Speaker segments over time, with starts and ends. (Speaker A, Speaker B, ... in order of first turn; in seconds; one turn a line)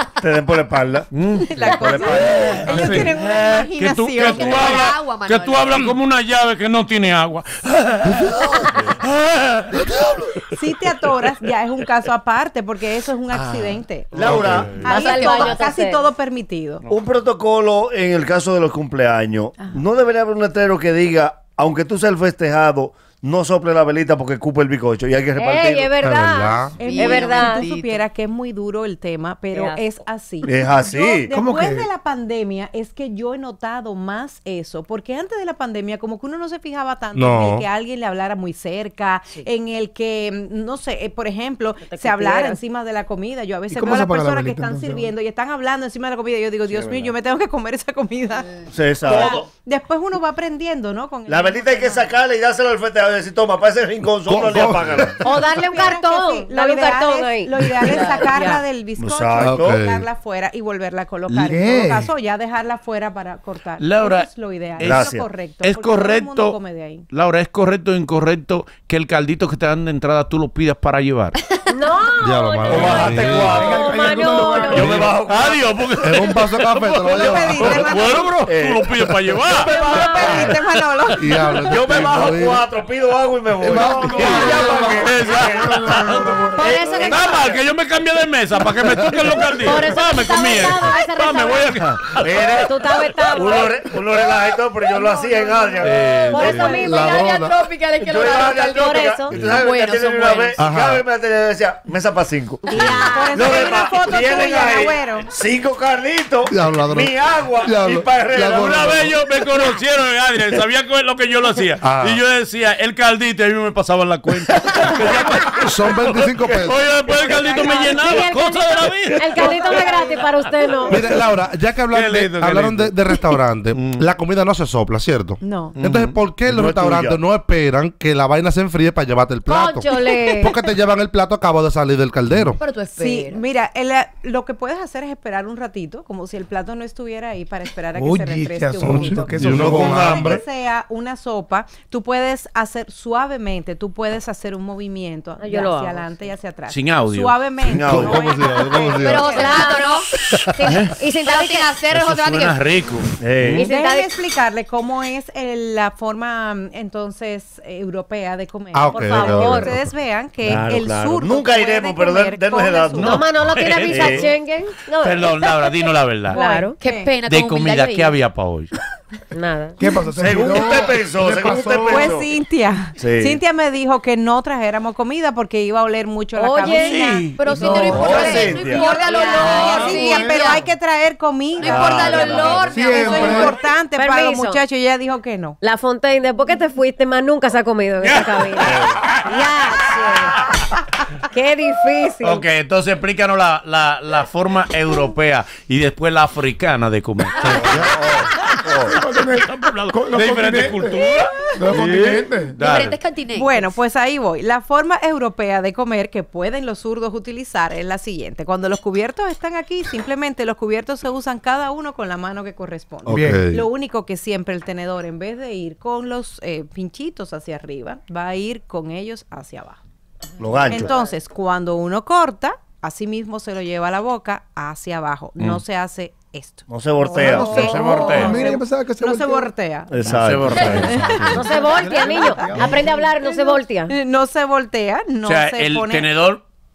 Speaker A: 0.2-2.7
Speaker B: 1.1-2.6
Speaker C: 1.5-4.7
Speaker D: 2.7-3.1
Speaker B: 3.2-10.4
Speaker E: 4.2-5.8
Speaker F: 8.1-8.4
Speaker F: 9.8-10.1
Speaker C: 10.5-16.8
Speaker B: 13.3-14.9
Speaker A: 14.1-14.9
Speaker E: 14.7-15.6
Speaker G: 14.8-16.1
Speaker A: 16.9-25.9
Speaker G: 25.4-27.6
Speaker F: 26.0-26.7
Speaker C: 26.8-52.1
Speaker E: 26.8-28.0
Speaker G: 29.5-29.9
Speaker A: 30.4-31.3
Speaker D: 31.3-31.9
Speaker F: 37.1-37.6
Speaker G: 41.8-42.6
Speaker D: 43.7-45.1
Speaker A: 48.7-49.4
Speaker G: 49.1-49.4
Speaker A: 51.3-55.2
Speaker F: 54.3-55.2
Speaker G: 55.2-57.7
Speaker C: 55.3-67.1
Speaker E: 57.8-58.4
Speaker G: 58.2-58.6
Speaker A: 59.0-59.8
Speaker F: 59.4-60.0
Speaker D: 61.3-62.1
Speaker B: 63.8-66.6
Speaker A: 64.8-65.2
Speaker B: 67.1-71.4
Speaker E: 71.4-72.2
Speaker G: 71.7-74.9
Speaker F: 72.2-73.6
Speaker A: 72.7-73.9
Speaker B: 72.7-73.0
Speaker D: 73.4-75.2
Speaker A: 74.6-75.8
Speaker B: 74.7-80.5
Speaker F: 76.0-77.9
Speaker C: 77.0-78.3
Speaker A: 78.4-78.9
Speaker A: 79.4-80.5
Speaker C: 79.6-81.5
Speaker G: 79.9-80.4
Speaker F: 81.2-82.6
Speaker A: 81.6-87.6
Speaker F: 83.6-85.1
Speaker D: 83.9-86.8
Speaker B: 84.1-86.3
Speaker G: 86.5-87.3
Speaker B: 86.9-93.6
Speaker G: 89.6-91.8
Speaker A: 92.0-96.0
Speaker G: 92.6-93.9
Speaker C: 94.9-96.0
Speaker B: 95.8-96.8
Speaker G: 96.3-97.5
Speaker F: 96.4-97.5
Speaker E: 96.7-100.6
Speaker A: 98.0-109.2
Speaker G: 98.7-99.5
Speaker F: 100.6-101.0
Speaker G: 102.7-103.6
Speaker C: 102.8-105.3
Speaker F: 106.5-109.1
Speaker B: 108.5-121.1
Speaker F: 111.8-112.2
Speaker F: 115.5-116.8
Speaker A: 116.5-118.0
Speaker G: 117.2-121.0
Speaker C: 119.4-120.2
Speaker F: 120.9-132.6
Speaker B: 121.9-124.1
Speaker C: 125.4-125.8
Speaker B: 125.8-126.2
Speaker A: 126.5-127.2
Speaker G: 129.4-130.6
Speaker E: 132.6-133.4
Speaker C: 132.9-149.7
Speaker D: 137.9-140.2
Speaker F: 138.8-140.4
Speaker A: 139.5-140.3
Speaker G: 145.4-146.0
Speaker B: 146.7-147.4
Speaker A: 147.6-148.2
Speaker F: 147.8-149.4
Speaker E: 148.9-150.1
Speaker G: 149.2-151.8
Speaker B: 150.3-150.9
Speaker E: 150.6-152.6
Speaker B: 151.9-153.6
Speaker A: 153.2-153.7
Speaker G: 153.6-154.1
Speaker C: 153.6-163.2
Speaker F: 158.7-159.8
Speaker G: 158.9-159.7
Speaker A: 160.4-164.2
Speaker B: 163.0-164.3
Speaker G: 163.0-166.8
Speaker B: 165.0-166.4
Speaker C: 166.3-167.1
Speaker E: 166.8-168.2
Speaker B: 167.2-168.7
Speaker G: 169.3-169.7
Speaker D: 169.8-172.2
Speaker A: 170.2-172.3
Speaker C: 171.9-185.6
Speaker A: 173.0-173.4
Speaker G: 176.3-177.2
Speaker E: 176.8-180.7
Speaker D: 177.0-180.4
Speaker A: 177.8-178.9
Speaker G: 179.3-179.7
Speaker B: 179.4-179.9
Speaker E: 181.6-183.6
Speaker A: 181.6-182.6
Speaker D: 182.6-183.6
Speaker G: 183.9-184.6
Speaker G: 185.6-190.4
Speaker B: 188.0-189.3
Speaker G: 191.3-192.4
Speaker B: 192.2-203.0
Speaker F: 197.4-197.9
Speaker A: 197.5-198.9
Speaker D: 198.8-202.6
Speaker A: 201.8-202.1
Speaker E: 202.6-203.7
Speaker C: 203.3-219.8
Speaker F: 213.1-213.6
Speaker D: 213.1-213.4
Speaker A: 220.4-220.9
Speaker C: 220.7-229.9
Speaker A: 226.7-227.9
Speaker D: 227.1-229.5
Speaker B: 227.6-228.4
Speaker A: 229.9-231.4
Speaker B: 230.0-231.3
Speaker C: 230.8-236.1
Speaker D: 231.0-232.9
Speaker G: 231.3-233.9
Speaker B: 235.2-236.4